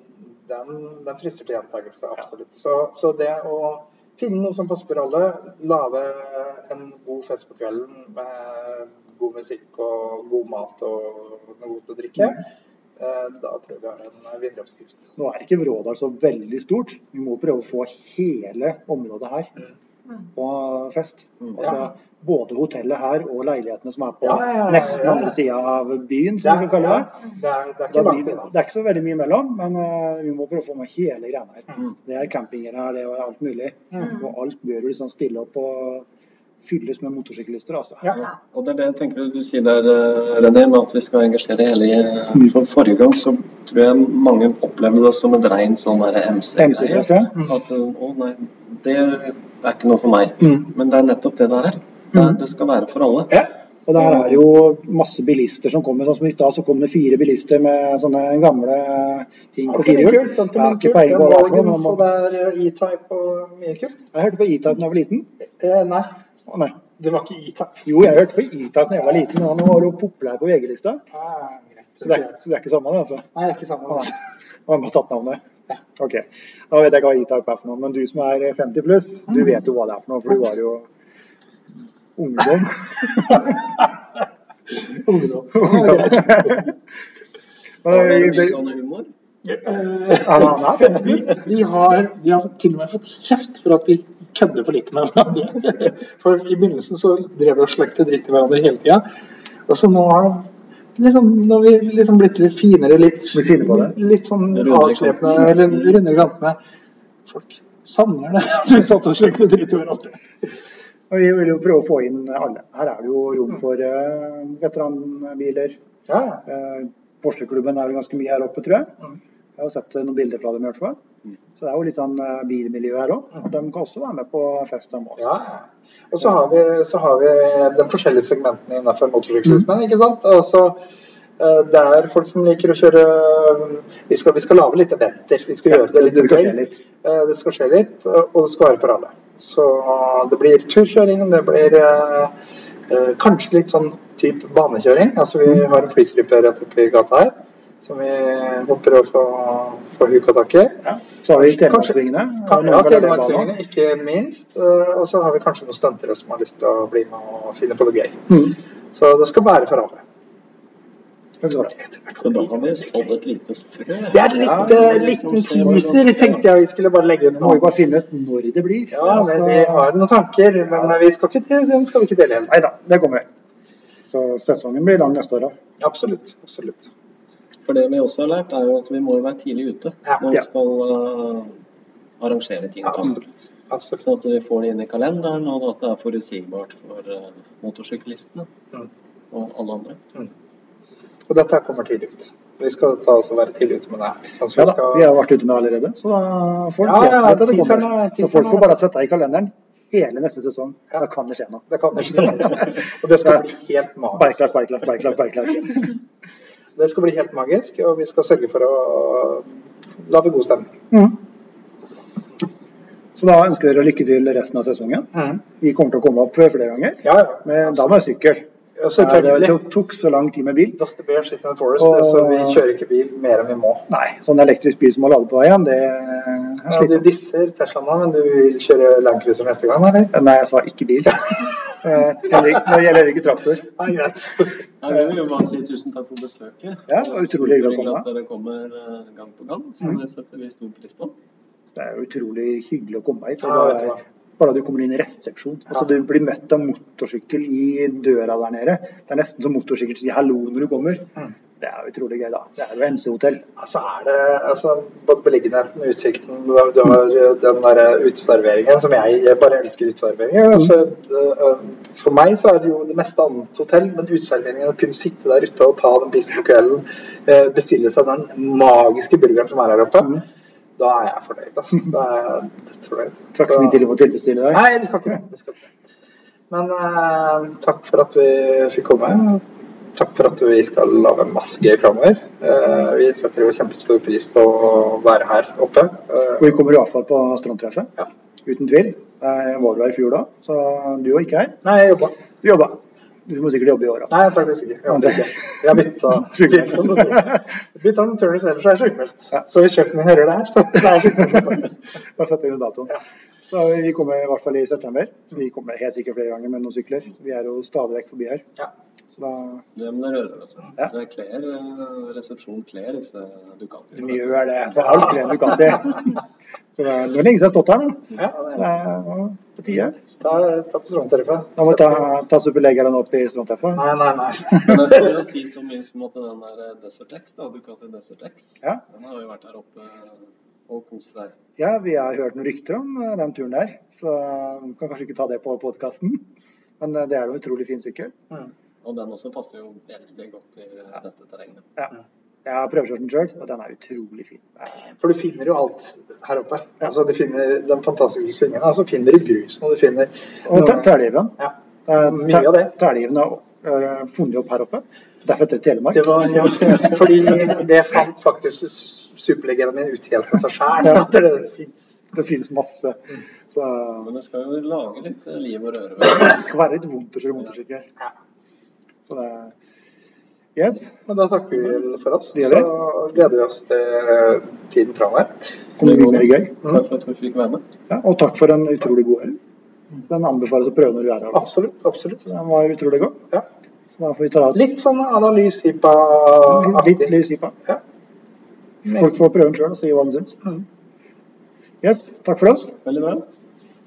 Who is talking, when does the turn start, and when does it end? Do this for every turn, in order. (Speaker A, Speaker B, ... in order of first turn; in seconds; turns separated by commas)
Speaker A: 0.3-12.4, Speaker A: 13.0-15.1, Speaker B: 15.2-19.5, Speaker B: 20.4-27.1, Speaker A: 21.6-21.9, Speaker A: 24.2-25.4, Speaker A: 26.4-28.5, Speaker B: 27.9-36.1, Speaker B: 36.6-38.1, Speaker C: 38.1-53.5, Speaker B: 46.6-47.4, Speaker B: 53.9-62.0, Speaker A: 59.7-64.1, Speaker B: 64.1-65.3, Speaker A: 65.6-66.2, Speaker B: 66.5-66.8, Speaker A: 67.0-67.9, Speaker B: 67.8-71.0, Speaker A: 71.1-72.4, Speaker B: 72.0-73.3, Speaker A: 73.3-74.2, Speaker B: 74.7-75.4, Speaker B: 76.0-80.9, Speaker B: 82.2-83.6, Speaker A: 84.9-86.7, Speaker B: 85.5-86.7, Speaker B: 87.8-88.6, Speaker C: 87.9-89.1, Speaker A: 89.5-99.0, Speaker B: 90.2-91.2, Speaker A: 99.7-106.6, Speaker B: 103.3-104.0, Speaker C: 104.5-106.0, Speaker A: 107.3-110.2, Speaker B: 111.1-115.8, Speaker A: 116.1-116.4, Speaker B: 116.5-118.9, Speaker B: 119.6-121.0, Speaker B: 121.6-125.3, Speaker A: 125.2-130.8, Speaker A: 131.4-142.3, Speaker B: 135.7-136.8, Speaker A: 142.9-150.8, Speaker B: 150.8-153.5, Speaker A: 151.4-160.0, Speaker B: 158.3-158.6, Speaker B: 161.4-161.7, Speaker A: 161.6-162.9, Speaker C: 162.2-166.4, Speaker A: 164.1-167.7, Speaker B: 167.4-169.9, Speaker A: 168.9-172.6, Speaker B: 172.5-173.3, Speaker B: 174.1-175.6, Speaker A: 175.8-176.9, Speaker C: 177.7-181.6, Speaker C: 182.2-183.2, Speaker A: 182.8-184.0, Speaker C: 184.0-188.5, Speaker C: 189.3-190.0, Speaker A: 191.3-195.1, Speaker B: 194.6-203.4, Speaker A: 196.8-198.8, Speaker A: 201.7-204.5, Speaker B: 204.2-206.0, Speaker A: 206.8-210.8, Speaker B: 210.9-211.2, Speaker B: 213.2-218.5, Speaker A: 215.1-215.4, Speaker A: 217.0-218.1, Speaker A: 218.8-219.6, Speaker B: 219.0-220.8, Speaker A: 220.8-223.9, Speaker B: 221.8-222.6, Speaker B: 223.9-227.1, Speaker A: 226.7-230.1, Speaker B: 230.1-233.7, Speaker A: 233.8-234.5, Speaker C: 234.8-241.2, Speaker B: 236.9-238.1, Speaker B: 241.7-253.4, Speaker A: 243.4-244.0, Speaker A: 253.6-270.2, Speaker A: 270.8-273.8, Speaker B: 273.4-274.6, Speaker A: 274.5-275.7, Speaker A: 276.5-279.4, Speaker A: 280.0-286.5, Speaker B: 286.4-287.9, Speaker B: 288.4-291.6, Speaker A: 291.6-292.2, Speaker B: 292.4-294.2, Speaker A: 294.1-301.7, Speaker B: 294.9-297.4, Speaker B: 301.2-301.6, Speaker B: 302.2-308.4, Speaker B: 309.1-309.6, Speaker C: 309.8-314.5, Speaker B: 314.0-316.1, Speaker A: 314.8-315.2, Speaker B: 316.7-320.0, Speaker A: 318.2-318.6, Speaker A: 320.2-322.1, Speaker B: 321.6-323.9, Speaker A: 323.8-325.1, Speaker C: 324.6-331.3, Speaker B: 331.6-336.2, Speaker B: 336.8-338.1, Speaker C: 338.8-341.7, Speaker B: 342.4-344.9, Speaker A: 345.0-350.9, Speaker B: 350.5-351.3, Speaker A: 351.4-352.7, Speaker B: 351.9-356.7, Speaker A: 355.9-362.0, Speaker B: 362.1-364.1, Speaker C: 364.0-366.4, Speaker B: 366.1-367.9, Speaker B: 369.1-369.6, Speaker B: 370.6-370.9, Speaker A: 371.1-375.5, Speaker B: 372.4-372.7, Speaker B: 375.8-376.5, Speaker C: 375.8-377.6, Speaker B: 377.9-379.4, Speaker B: 380.1-381.5, Speaker A: 381.3-382.3, Speaker B: 382.2-383.2, Speaker B: 383.9-384.6, Speaker A: 384.5-387.1, Speaker B: 386.5-387.6, Speaker A: 388.9-389.1, Speaker B: 388.9-390.4, Speaker B: 391.8-392.8, Speaker C: 392.9-393.3